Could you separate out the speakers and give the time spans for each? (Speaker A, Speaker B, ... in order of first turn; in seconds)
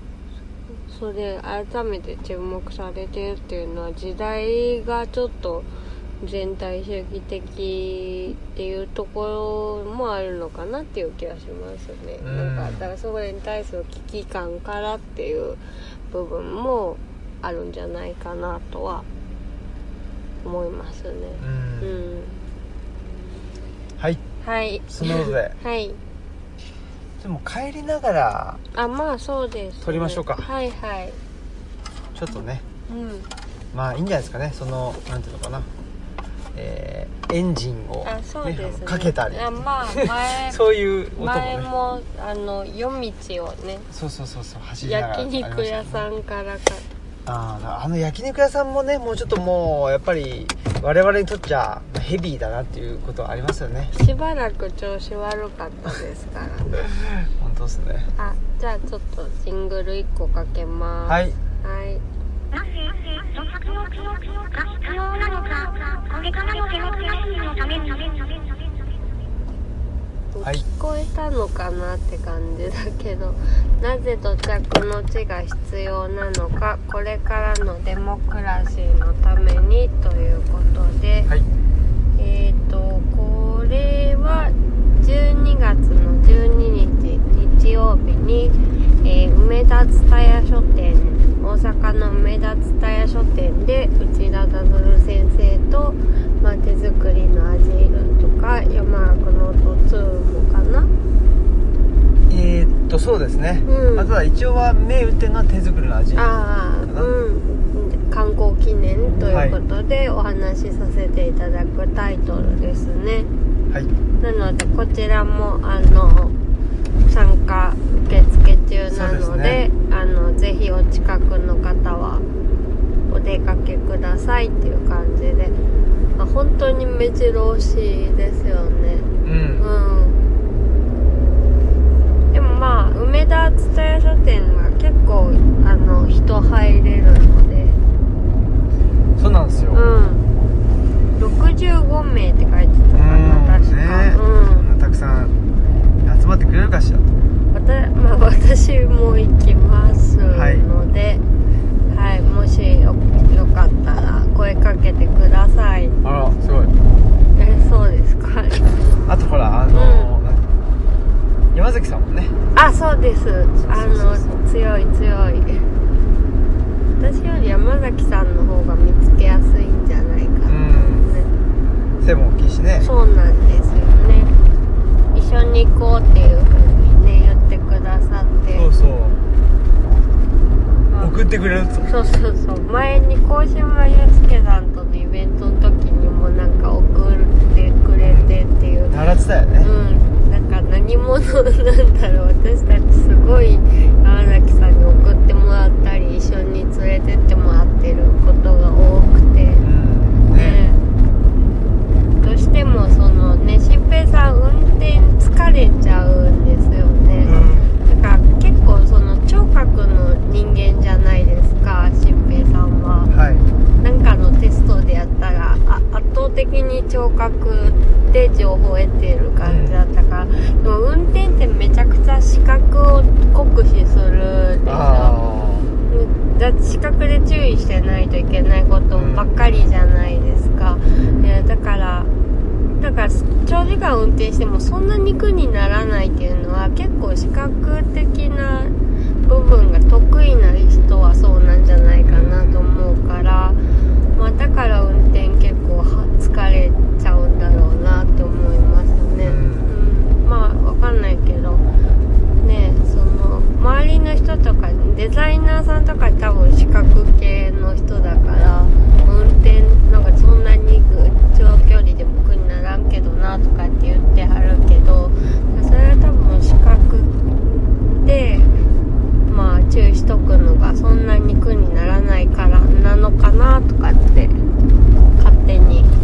Speaker A: 0.9-5.7, 6.2-19.1, 20.4-22.4, 24.4-26.0, 28.7-31.2, 32.9-33.3, 38.0-40.6, 41.1-43.9, 44.8-46.9, 53.9-56.9, 58.2-62.0, 70.3-81.3, 82.2-100.9, 103.7-104.1, 106.1-113.3, 114.2-116.3, 117.0-122.2, 123.1-125.6, 126.2-130.2, 132.3-137.8, 139.7-140.3, 141.2-144.7, 147.5-151.2, 151.9-156.0, 157.3-158.9, 159.7-160.1, 162.5-165.7, 167.0-171.3, 172.8-174.3, 175.1-178.7, 180.9-181.1, 181.8-188.9, 189.6-199.6, 200.3-200.8, 202.2-213.1, 213.8-225.2, 225.9-232.1, 232.8-238.7, 239.2-243.6, 244.1-251.6, 252.4-268.5, 269.3-274.4, 275.2-275.9
Speaker B: 12.2-12.9, 21.4-22.0, 24.9-25.6, 27.2-28.6, 29.8-30.5, 32.1-32.6, 33.7-35.7, 36.5-39.5, 40.5-41.7, 43.9-46.0, 47.2-53.9, 57.2-58.1, 61.1-61.4, 102.3-106.3, 106.8-107.1, 109.3-109.6, 118.9-119.6, 129.2-129.7, 139.2-139.8, 142.9-145.3, 146.0-147.1, 150.3-150.7, 156.0-156.7, 159.1-160.5, 161.5-162.4, 163.6-164.4, 170.4-171.1, 172.0-172.9, 178.5-179.2, 181.0-181.9, 188.0-188.3, 188.9-189.7, 199.6-200.6, 207.2-207.7, 213.1-213.5, 219.4-219.8, 224.7-225.7, 228.9-229.3, 242.1-242.7, 249.2-249.8, 265.2-265.4
Speaker C: 62.5-68.8